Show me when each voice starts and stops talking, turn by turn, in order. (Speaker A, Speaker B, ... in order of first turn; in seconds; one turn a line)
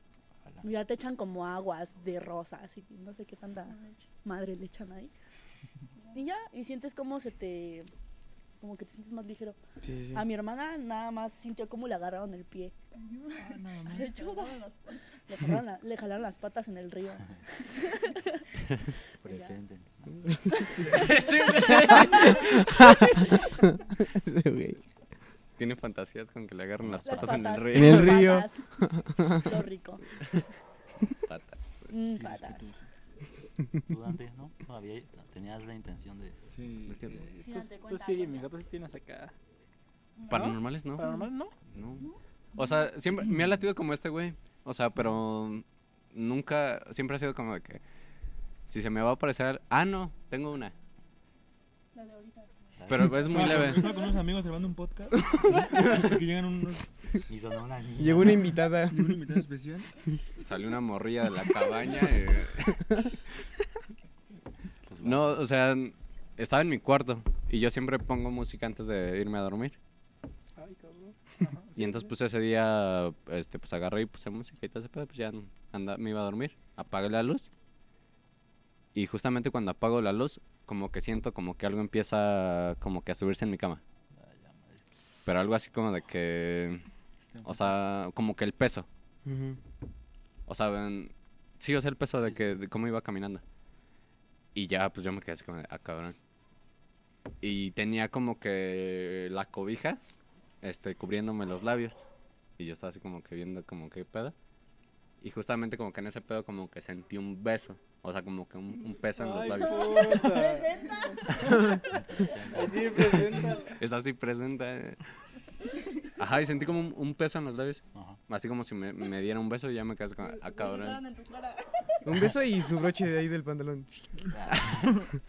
Speaker A: 0.6-5.1
Speaker A: 6.0-7.9
Speaker A: 8.6-9.6
Speaker B: 9.8-10.2
Speaker A: 10.1-18.4
Speaker C: 13.4-14.4
Speaker D: 19.2-20.5
Speaker A: 19.2-19.5
Speaker A: 20.8-23.8
Speaker E: 20.8-22.7
Speaker B: 21.8-24.8
Speaker E: 25.6-28.2
Speaker D: 26.8-27.6
Speaker A: 27.0-28.6
Speaker B: 27.7-29.4
Speaker A: 29.2-30.0
Speaker E: 31.2-31.9
Speaker A: 31.9-32.7
Speaker C: 32.1-32.9
Speaker D: 33.9-36.4
Speaker C: 36.5-37.3
Speaker E: 36.9-37.2
Speaker F: 37.1-39.3
Speaker A: 37.4-38.5
Speaker A: 40.2-41.2
Speaker E: 40.3-41.1
Speaker F: 41.0-41.5
Speaker E: 41.7-47.8
Speaker E: 48.7-50.7
Speaker A: 51.9-52.5
Speaker D: 52.8-53.3
Speaker E: 52.9-54.0
Speaker C: 53.2-56.9
Speaker B: 55.3-55.9
Speaker D: 57.3-58.5
Speaker B: 58.0-59.3
Speaker C: 58.8-59.9
Speaker E: 60.4-62.9
Speaker D: 64.8-65.5
Speaker E: 65.0-69.8
Speaker F: 70.6-72.1
Speaker E: 71.8-77.5
Speaker E: 78.9-83.8
Speaker D: 84.2-84.8
Speaker E: 85.2-86.9
Speaker C: 87.3-87.7
Speaker E: 87.4-88.9
Speaker B: 89.2-89.6
Speaker E: 90.5-93.4
Speaker E: 94.5-96.2
Speaker E: 97.4-100.0
Speaker E: 100.6-102.0
Speaker E: 102.6-104.3
Speaker E: 105.2-110.2
Speaker F: 109.1-111.7
Speaker A: 109.5-113.6
Speaker D: 111.9-113.0
Speaker F: 112.5-113.8
Speaker E: 113.8-115.0
Speaker E: 116.1-121.1
Speaker D: 117.9-118.2
Speaker A: 120.5-121.8
Speaker B: 122.0-124.5
Speaker D: 124.3-125.0